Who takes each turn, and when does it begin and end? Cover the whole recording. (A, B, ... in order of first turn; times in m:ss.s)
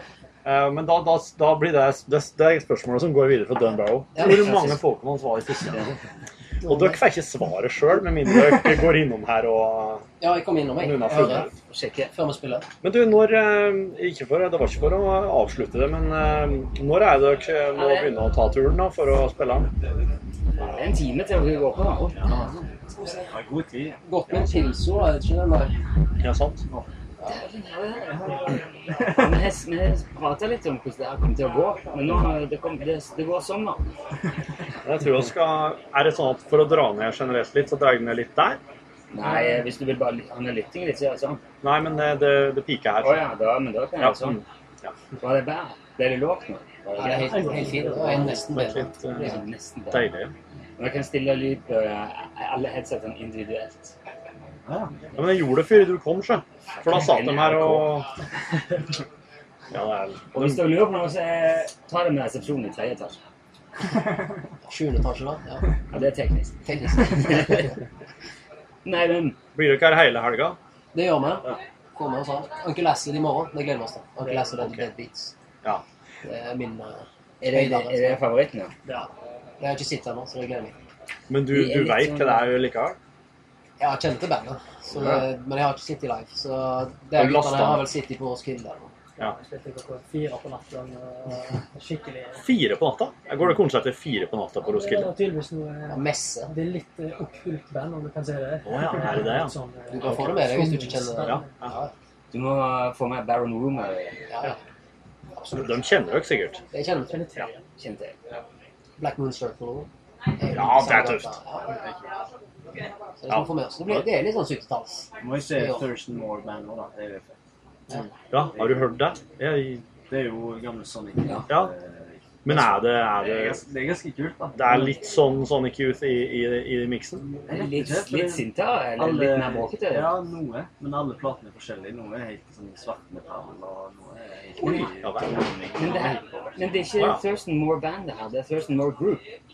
0:00.4-0:06.0 A
0:04.2-0:04.8 B
0:06.6-0:10.1 A
0:10.2-0:11.5 C
0:10.8-0:11.5 A
0:11.7-0:12.1 B
0:12.1-0:12.6 C
0:12.8-0:19.7 A
0:17.7-0:18.2 B
0:20.6-0:22.6 B
0:22.2-0:22.5 D
0:23.3-0:24.4 D
0:24.0-0:25.7 C
0:26.2-0:26.6 A
0:27.2-0:33.8 B
0:28.1-0:28.4 D
0:29.0-0:29.2 D
0:34.8-0:38.6 A
0:39.1-0:41.4 B
0:41.6-0:43.2 A
0:43.0-0:44.4 B
0:44.0-0:44.9 A
0:45.2-0:47.9 B
0:47.0-0:49.4 C
0:47.0-0:48.3 E
0:48.1-0:49.3 A
0:49.1-0:50.1 B
0:49.9-0:50.3 A
0:50.8-0:53.9 B
0:54.6-0:55.0 D
0:55.1-0:58.1 A
0:56.8-0:58.0 B
0:59.7-1:00.6 A
1:00.3-1:03.2 B
1:04.7-1:05.7 C
1:05.9-1:07.7 B
1:06.6-1:07.7 C
1:08.8-1:09.4 B
1:09.5-1:10.6 A
1:10.9-1:15.3 C
1:16.2-1:18.2 C
1:17.4-1:18.7 B
1:19.6-1:20.7 C
1:21.3-1:23.0 A
1:21.5-1:22.5 B
1:23.8-1:28.9 C
1:27.1-1:27.9 A
1:29.2-1:32.4 E
1:32.4-1:35.1 A
1:34.6-1:41.4 E
1:35.9-1:36.5 C
1:38.6-1:39.5 A
1:39.9-1:41.9 C
1:41.2-1:41.7 A
1:42.3-1:44.2 B
1:44.3-1:44.6 C
1:45.4-1:45.7 C
1:45.6-1:46.6 A
1:46.7-1:47.2 C
1:47.1-1:47.6 E
1:47.8-1:48.1 B
1:49.0-1:51.7 C
1:50.5-1:51.3 A
1:51.7-1:52.0 D
1:53.2-1:55.9 C
1:53.3-1:54.1 A
1:55.2-1:57.3 D
1:58.3-1:59.8 A
1:58.6-1:58.8 D
2:00.1-2:04.9 D
2:02.4-2:03.6 A
2:04.6-2:07.2 A
2:07.5-2:16.8 D
2:07.5-2:10.2 B
2:14.6-2:14.9 B
2:14.8-2:15.3 A
2:15.7-2:19.2 B